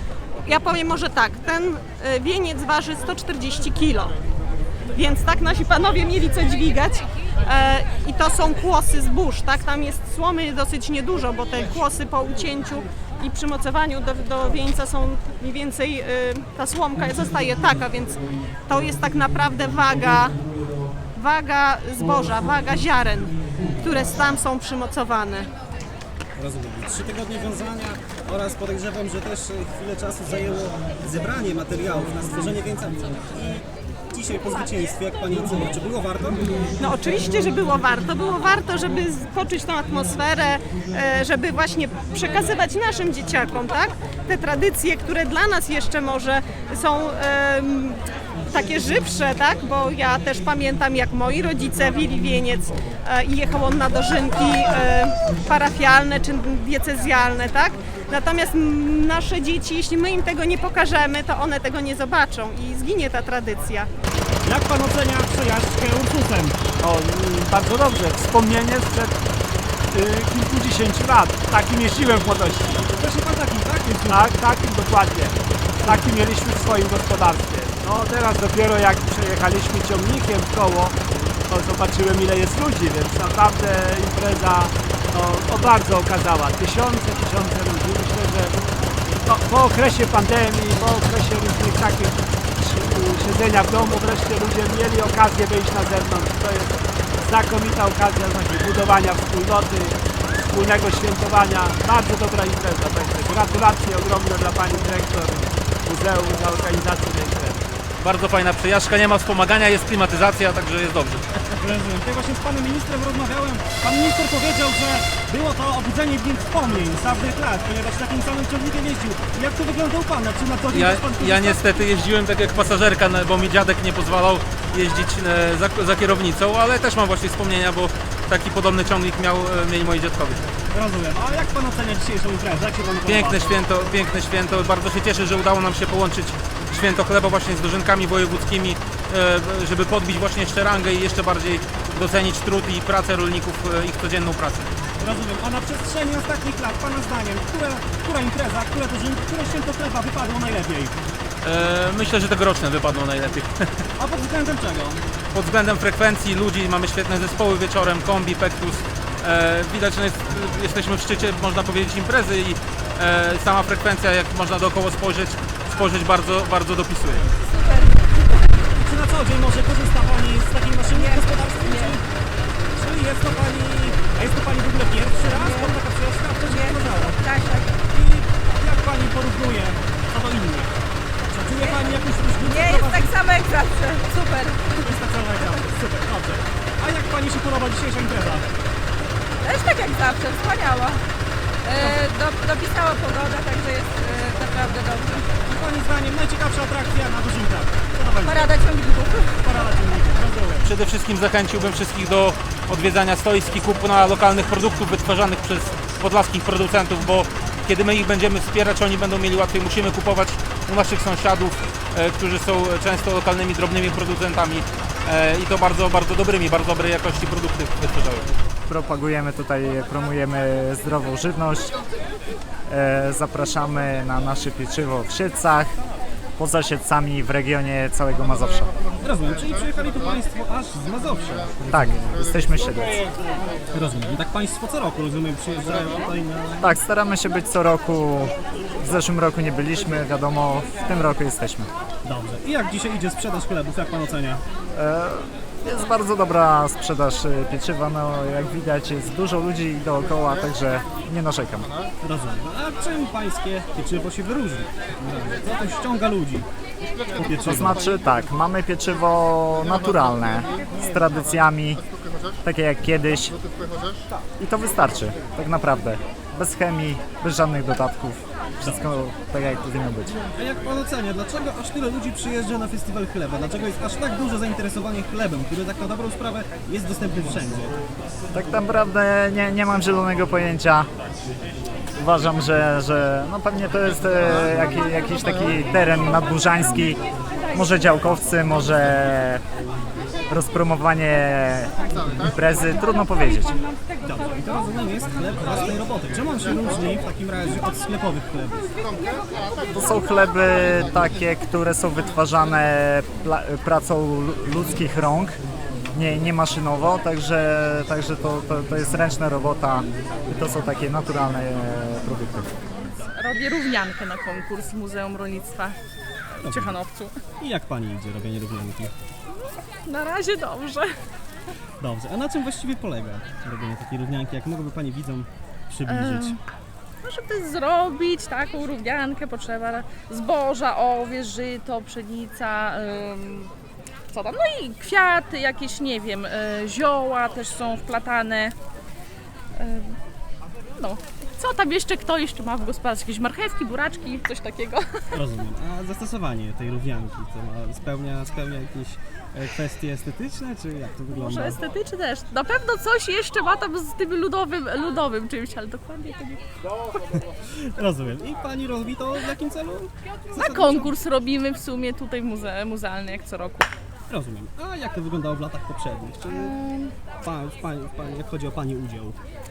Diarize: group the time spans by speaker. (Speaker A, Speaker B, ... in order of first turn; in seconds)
Speaker A: 0.5-4.2, 4.9-20.4, 21.1-25.5, 36.8-63.9
Speaker B: 26.4-36.4, 64.5-66.6, 72.9-74.3, 111.6-121.6, 130.7-133.4, 145.0-150.9, 154.0-155.0, 168.6-172.1, 172.8-177.3, 177.9-180.8, 181.3-183.2, 184.8-188.5, 191.8-192.1, 195.4-198.6, 199.4-200.7, 229.0-232.2, 233.7-236.8, 242.0-244.4, 252.0-256.5, 257.2-257.8, 268.6-268.9, 270.3-277.7, 294.0-298.7, 316.4-316.8, 317.4-318.9, 321.8-326.4, 345.1-351.6, 357.1-360.9, 364.1-366.6, 367.2-369.2
Speaker C: 66.8-69.2, 69.9-72.9, 74.1-88.5, 89.2-107.6
Speaker D: 108.0-111.4, 120.7-130.5, 133.0-144.7, 151.4-153.5, 155.3-167.3, 200.6-218.3
Speaker E: 167.4-167.9, 170.9-172.0, 175.3-175.8, 176.4-177.8, 181.5-184.9, 189.4-191.0, 191.6-195.3, 198.2-199.3
Speaker F: 218.7-221.8, 222.7-225.8, 226.4-228.7, 231.7-233.0, 236.6-241.7, 244.7-251.7, 257.2-261.8, 262.4-263.4, 264.4-270.2, 278.3-280.9, 282.0-289.4, 290.3-293.6, 299.7-305.4, 305.9-312.5
Speaker G: 312.9-315.8, 316.4-317.1, 319.4-320.9, 325.8-326.4, 327.0-333.5, 334.1-338.5, 339.6-340.0, 340.8-345.2, 351.1-356.4, 360.3-363.7, 366.3-366.9